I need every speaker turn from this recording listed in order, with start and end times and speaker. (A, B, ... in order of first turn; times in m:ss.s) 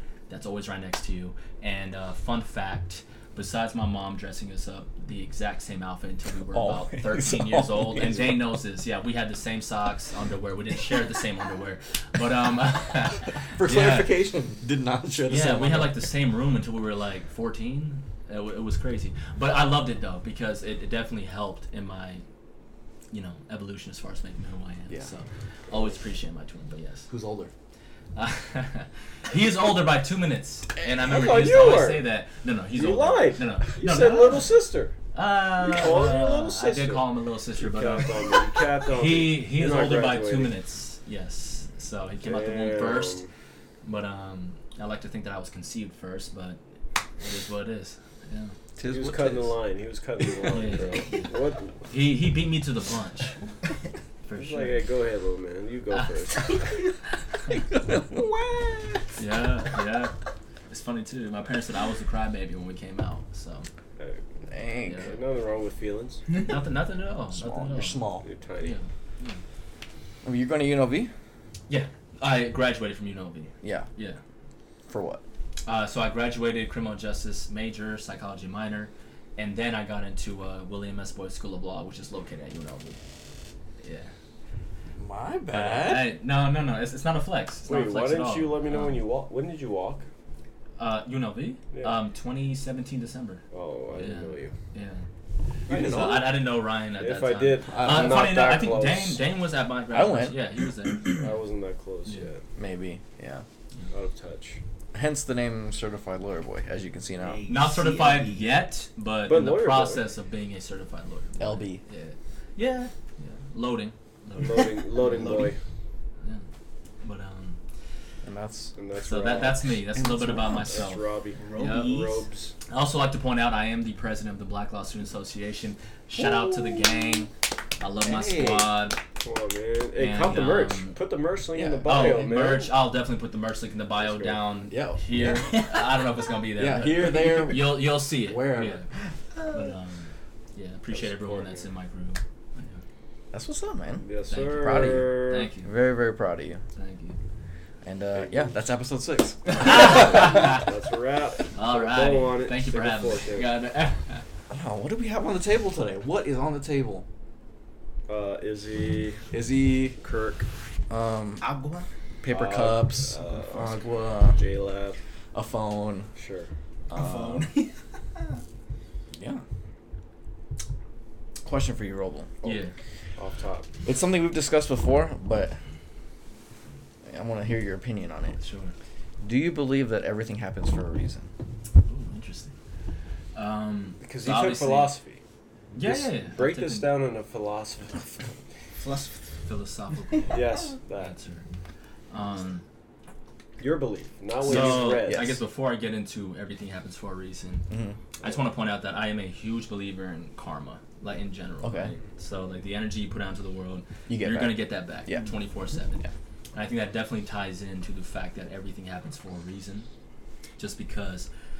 0:00.3-0:14.1 A
0:06.5-0:08.4 B
0:13.5-0:16.0 B
0:15.3-0:22.2 A
0:23.1-0:27.1 A
0:27.1-0:27.5 B
0:28.1-0:43.3 A
0:31.0-0:32.0 C
0:32.7-0:40.6 C
0:42.2-0:43.3 C
0:43.8-0:46.6 A
0:47.2-0:48.6 A
0:48.8-0:49.6 B
0:48.9-0:51.9 C
0:50.5-0:53.5 A
0:54.2-0:54.9 A
0:54.4-0:56.8 C
0:57.5-0:59.1 B
0:59.2-1:00.2 A
1:00.7-1:03.7 A
1:04.0-1:04.2 C
1:04.5-1:05.1 B
1:04.8-1:05.1 A
1:04.9-1:06.2 C
1:06.4-1:09.4 A
1:07.3-1:08.3 B
1:08.2-1:08.8 C
1:10.2-1:11.1 B
1:11.7-1:14.2 A
1:13.6-1:13.9 B
1:14.9-1:15.2 B
1:15.6-1:23.0 A
1:23.8-1:24.1 A
1:25.0-1:26.1 B
1:25.5-1:29.0 A
1:27.7-1:30.1 C
1:30.8-1:41.3 A
1:31.7-1:32.0 C
1:33.5-1:34.5 C
1:35.7-1:36.3 B
1:35.7-1:36.2 C
1:37.0-1:39.2 C
1:37.7-1:38.5 B
1:39.9-1:40.4 B
1:41.2-1:42.4 C
1:42.6-1:43.4 B
1:43.9-1:44.6 C
1:44.9-1:47.4 B
1:47.2-1:48.5 D
1:47.5-1:55.5 A
1:49.3-1:50.0 C
1:51.4-1:51.8 B
1:54.4-1:55.6 C
1:55.0-1:55.5 D
1:57.0-1:57.6 A
1:58.2-1:58.8 B
1:58.8-1:59.6 C
1:59.0-2:02.0 A
1:59.9-2:00.9 B
2:00.7-2:02.6 C
2:01.4-2:02.3 D
2:02.7-2:09.0 A
2:06.1-2:07.2 B
2:08.0-2:08.7 B
2:09.2-2:12.7 C
2:10.0-2:11.0 A
2:11.6-2:11.9 B
2:11.8-2:22.8 A
2:14.0-2:14.4 C
2:14.7-2:15.8 B
2:16.6-2:18.8 B
2:19.4-2:19.7 D
2:20.9-2:21.7 C
2:23.3-2:26.6 B
2:24.0-2:25.5 C
2:24.3-2:25.7 A
2:26.8-2:27.2 A
2:27.8-2:30.4 B
2:28.1-2:28.5 C
2:29.6-2:30.6 A
2:29.8-2:33.5 C
2:31.5-2:34.3 A
2:34.5-2:37.1 B
2:38.1-2:39.4 C
2:39.3-2:40.0 B
2:39.9-2:40.5 C
2:40.9-2:41.5 B
2:41.4-2:41.9 D
2:42.2-2:44.5 B
2:42.3-2:45.0 C
2:45.3-2:46.1 B
2:46.2-2:46.5 C
2:46.9-2:47.5 B
2:46.9-2:48.4 D
2:49.1-2:49.4 B
2:51.4-2:52.4 B
2:52.4-2:52.7 A
2:53.2-2:53.7 C
2:53.8-2:55.6 B
2:57.0-2:58.4 B
2:58.4-2:58.8 A
2:59.2-3:01.3 B
3:01.8-3:02.6 A
3:03.3-3:05.0 A
3:04.0-3:05.2 C
3:05.7-3:06.9 A
3:05.8-3:08.4 C
3:08.8-3:09.4 D
3:09.4-3:11.5 A
3:10.1-3:10.6 D
3:10.3-3:11.2 C
3:12.1-3:12.6 A
3:13.6-3:15.4 C
3:14.4-3:17.7 A
3:14.5-3:14.8 B
3:17.7-3:18.0 B
3:18.2-3:18.5 C
3:18.2-3:29.9 A
3:21.6-3:22.0 B
3:24.1-3:25.4 B
3:30.6-3:31.3 A